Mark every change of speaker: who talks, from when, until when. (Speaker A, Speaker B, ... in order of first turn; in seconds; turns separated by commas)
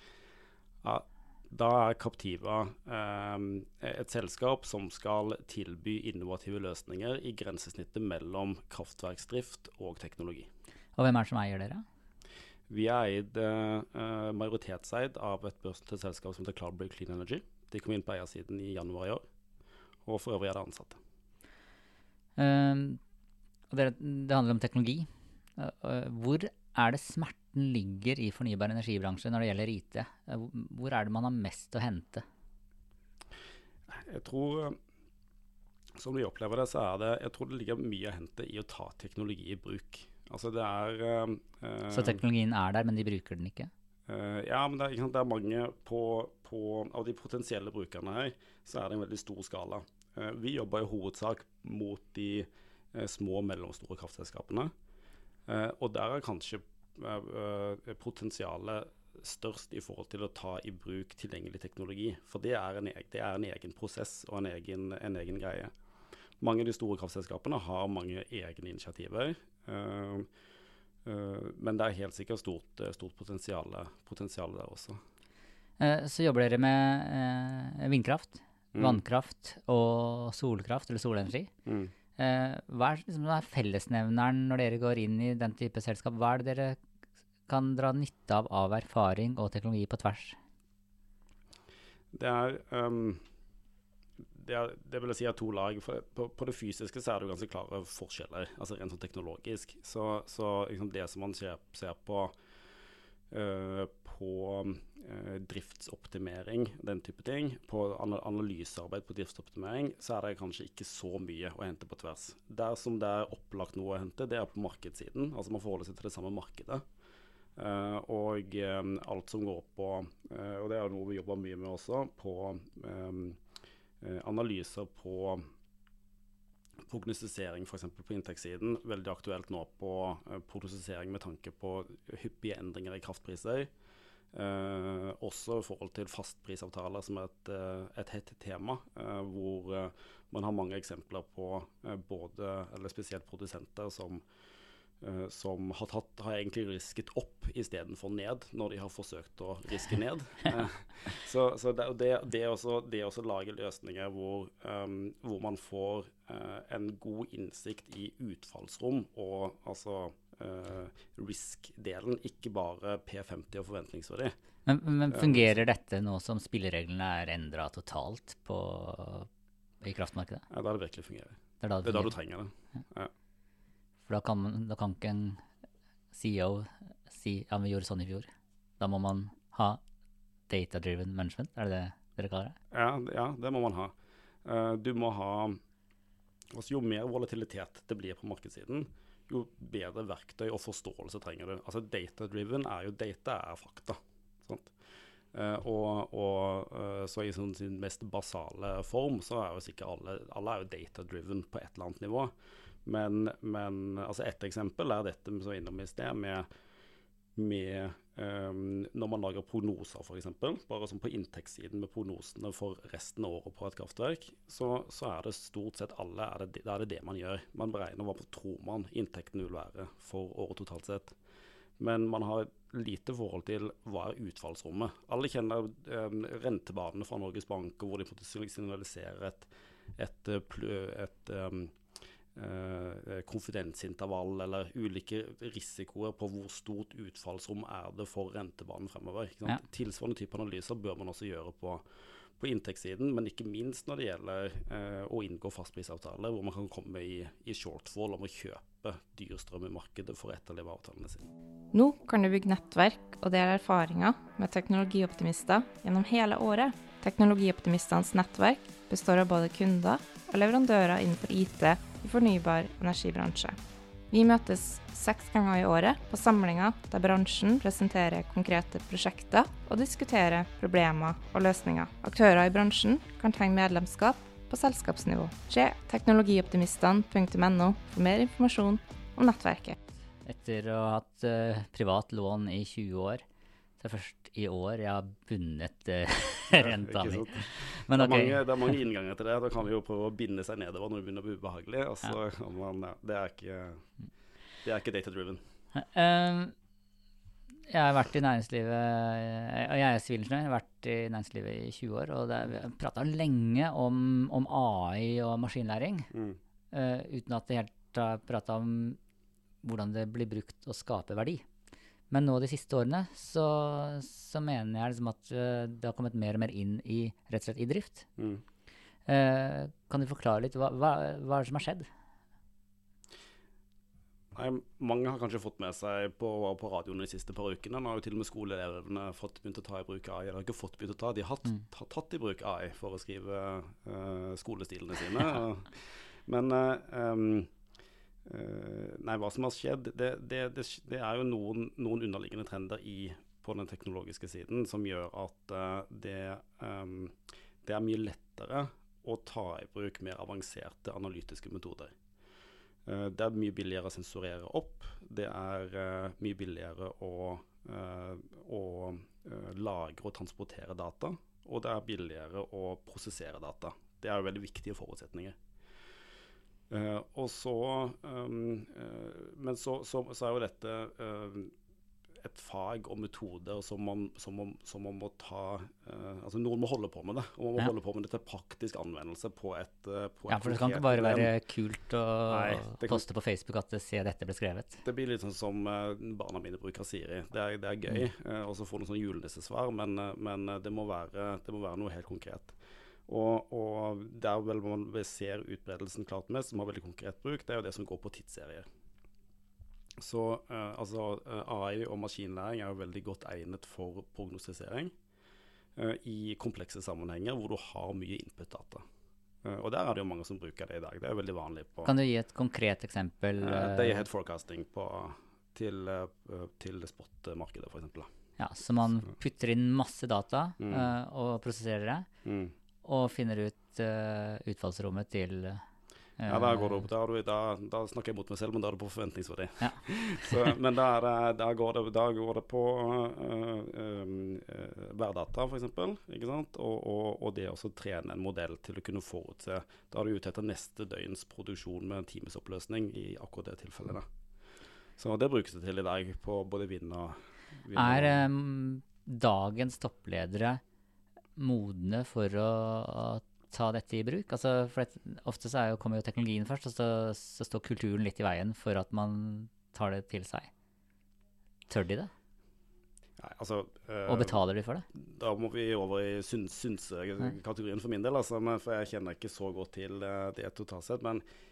Speaker A: 0.8-10.5, Speaker B: 10.9-11.8, Speaker A: 12.7-19.2, Speaker A: 20.1-21.0, Speaker B: 22.4-23.0, Speaker B: 23.7-32.2, Speaker A: 33.9-34.8, Speaker A: 36.0-42.2, Speaker B: 41.9-43.7, Speaker A: 44.1-54.7, Speaker A: 55.5-65.7, Speaker A: 66.4-70.3, Speaker A: 71.0-75.0, Speaker B: 75.8-81.5, Speaker A: 78.7-79.0, Speaker A: 81.7-81.9, Speaker B: 82.2-86.8, Speaker B: 87.5-90.4, Speaker A: 92.1-93.2, Speaker A: 94.3-102.3, Speaker A: 103.3-116.8, Speaker A: 117.6-123.4, Speaker A: 124.0-125.4, Speaker A: 126.9-133.7, Speaker A: 134.3-144.2, Speaker A: 145.0-164.3, Speaker B: 164.7-169.3, Speaker A: 165.1-165.6, Speaker B: 169.8-170.4, Speaker A: 170.5-173.1, Speaker B: 171.6-172.1, Speaker B: 174.1-175.4, Speaker B: 176.1-179.8, Speaker B: 180.5-182.6, Speaker A: 182.7-183.9, Speaker A: 184.4-185.6, Speaker A: 186.5-194.7, Speaker A: 195.3-202.3, Speaker A: 202.8-206.5, Speaker A: 207.4-221.1, Speaker A: 221.8-231.8, Speaker A: 232.3-241.8, Speaker A: 242.4-251.3, Speaker C: 251.7-263.6, Speaker C: 264.1-279.8, Speaker B: 280.2-283.2, Speaker B: 283.8-288.8, Speaker A: 286.5-293.9, Speaker A: 294.6-295.4, Speaker B: 295.8-296.5, Speaker B: 297.7-306.1, Speaker A: 306.1-306.4, Speaker B: 306.7-309.0, Speaker B: 309.6-311.4, Speaker B: 312.1-318.1, Speaker A: 318.2-318.4, Speaker B: 319.1-321.9, Speaker A: 324.3-337.5, Speaker A: 338.2-351.9, Speaker A: 352.9-365.4, Speaker A: 366.7-371.5, Speaker A: 372.2-381.3, Speaker B: 380.3-384.8, Speaker A: 382.3-383.0, Speaker A: 384.8-392.6, Speaker A: 393.1-398.6, Speaker A: 400.0-404.9, Speaker A: 405.8-408.8, Speaker A: 409.4-411.9, Speaker B: 411.9-414.0, Speaker A: 413.4-418.1, Speaker B: 418.4-422.1, Speaker A: 420.6-420.9, Speaker A: 422.2-422.5, Speaker B: 422.8-425.6, Speaker B: 426.2-426.9, Speaker A: 426.3-444.1, Speaker B: 429.6-430.5, Speaker A: 445.0-448.3, Speaker B: 447.7-450.6, Speaker B: 451.4-460.5, Speaker B: 461.7-462.1, Speaker A: 463.2-464.4, Speaker B: 464.1-464.9, Speaker A: 464.9-471.2